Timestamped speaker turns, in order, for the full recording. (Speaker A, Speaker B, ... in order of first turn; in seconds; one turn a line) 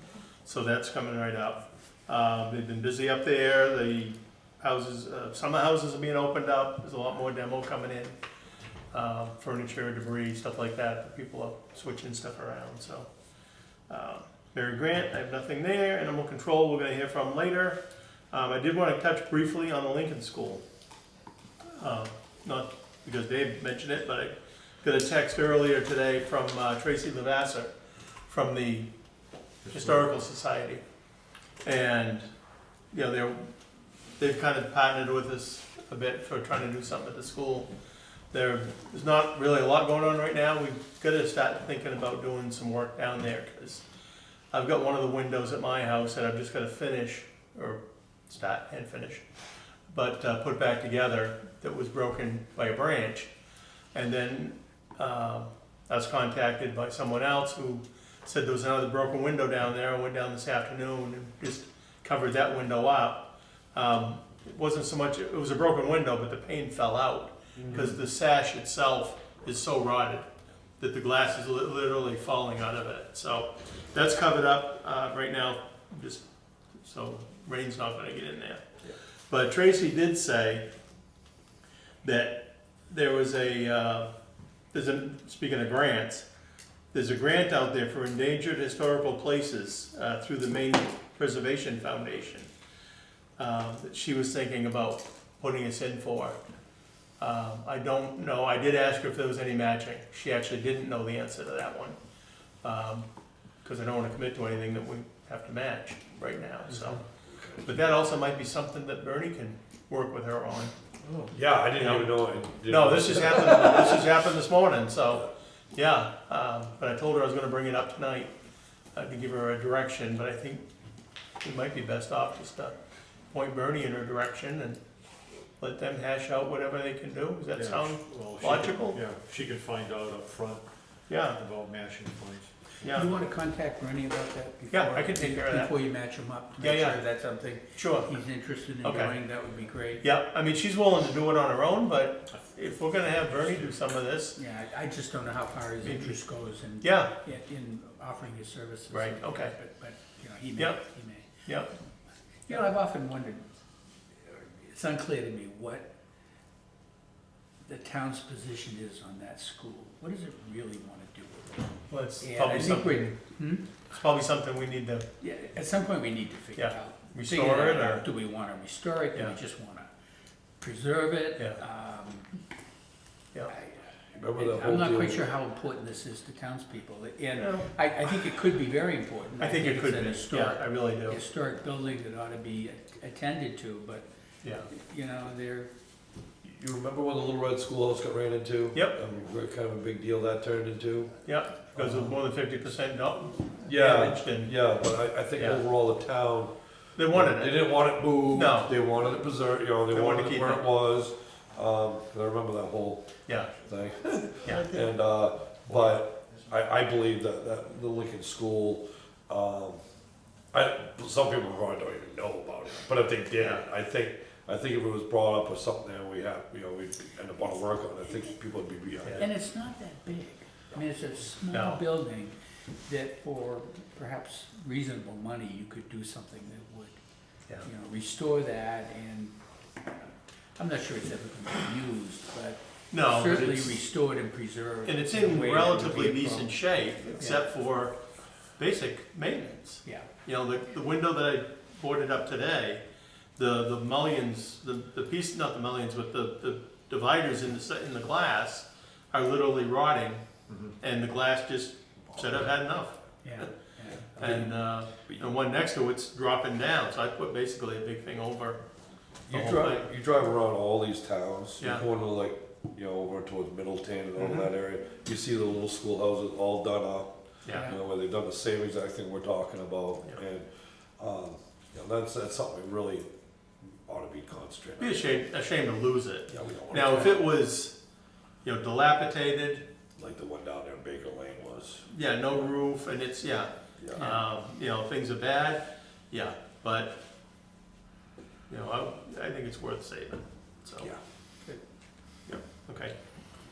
Speaker A: 0.4-8.2
Speaker A: 8.9-13.1
Speaker A: 13.9-17.8
Speaker A: 18.3-20.6
Speaker A: 21.7-27.7
Speaker A: 28.3-28.9
Speaker A: 29.7-30.8
Speaker A: 31.6-32.3
Speaker A: 32.9-33.5
Speaker A: 34.2-37.7
Speaker A: 38.3-43.8
Speaker A: 44.5-49.2
Speaker A: 49.9-53.3
Speaker A: 53.9-70.3
Speaker B: 67.6-67.9
Speaker A: 70.8-76.2
Speaker A: 76.8-78.6
Speaker A: 79.3-80.6
Speaker A: 82.0-84.1
Speaker A: 84.7-86.2
Speaker A: 86.9-92.5
Speaker A: 93.4-96.4
Speaker A: 97.2-102.0
Speaker A: 102.6-103.0
Speaker A: 103.6-107.0
Speaker C: 107.3-107.8
Speaker A: 107.6-110.7
Speaker B: 111.0-111.3
Speaker C: 111.3-114.1
Speaker A: 111.7-112.2
Speaker A: 112.7-118.3
Speaker A: 118.9-120.7
Speaker A: 121.4-122.7
Speaker A: 123.3-124.8
Speaker A: 125.6-129.0
Speaker B: 127.5-130.6
Speaker A: 131.1-131.4
Speaker B: 131.3-132.5
Speaker A: 132.8-133.1
Speaker D: 132.9-140.1
Speaker A: 134.7-135.7
Speaker A: 136.6-137.0
Speaker A: 137.8-138.1
Speaker A: 138.8-139.2
Speaker A: 140.0-144.4
Speaker D: 144.3-151.3
Speaker A: 145.8-146.2
Speaker A: 146.8-147.1
Speaker A: 148.9-149.5
Speaker A: 151.4-151.7
Speaker D: 152.5-153.4
Speaker D: 154.2-155.9
Speaker D: 157.7-163.7
Speaker A: 161.9-163.2
Speaker A: 163.9-165.0
Speaker D: 165.2-169.9
Speaker A: 166.6-168.1
Speaker D: 170.6-172.3
Speaker D: 173.5-184.1
Speaker C: 174.1-175.4
Speaker A: 177.4-177.7
Speaker A: 179.4-181.2
Speaker A: 184.4-184.7
Speaker D: 184.7-185.7
Speaker C: 186.4-191.1
Speaker A: 188.7-189.0
Speaker A: 191.2-194.5
Speaker C: 191.8-192.1
Speaker C: 193.7-196.5
Speaker A: 195.3-195.6
Speaker A: 196.9-197.7
Speaker C: 197.1-203.1
Speaker A: 198.3-198.7
Speaker A: 199.9-200.7
Speaker A: 203.2-203.5
Speaker C: 203.6-209.8
Speaker A: 204.4-204.7
Speaker C: 210.5-219.3
Speaker A: 213.3-213.6
Speaker D: 219.2-222.3
Speaker A: 221.5-221.8
Speaker D: 222.8-226.9
Speaker D: 227.6-229.3
Speaker D: 230.6-236.5
Speaker A: 232.9-233.8
Speaker A: 234.8-238.0
Speaker A: 238.6-242.8
Speaker A: 243.3-250.2
Speaker A: 250.8-253.6
Speaker D: 253.2-254.3
Speaker A: 254.1-258.6
Speaker C: 254.2-254.5
Speaker C: 259.3-273.1
Speaker A: 259.3-259.9
Speaker A: 261.6-261.9
Speaker A: 264.1-264.5
Speaker A: 267.4-267.7
Speaker D: 267.5-267.8
Speaker C: 273.9-275.0
Speaker A: 274.8-277.8
Speaker C: 276.3-277.2
Speaker A: 278.4-279.6
Speaker C: 280.0-281.9
Speaker A: 281.9-287.0
Speaker C: 283.8-284.1
Speaker A: 288.5-290.9
Speaker A: 292.3-292.9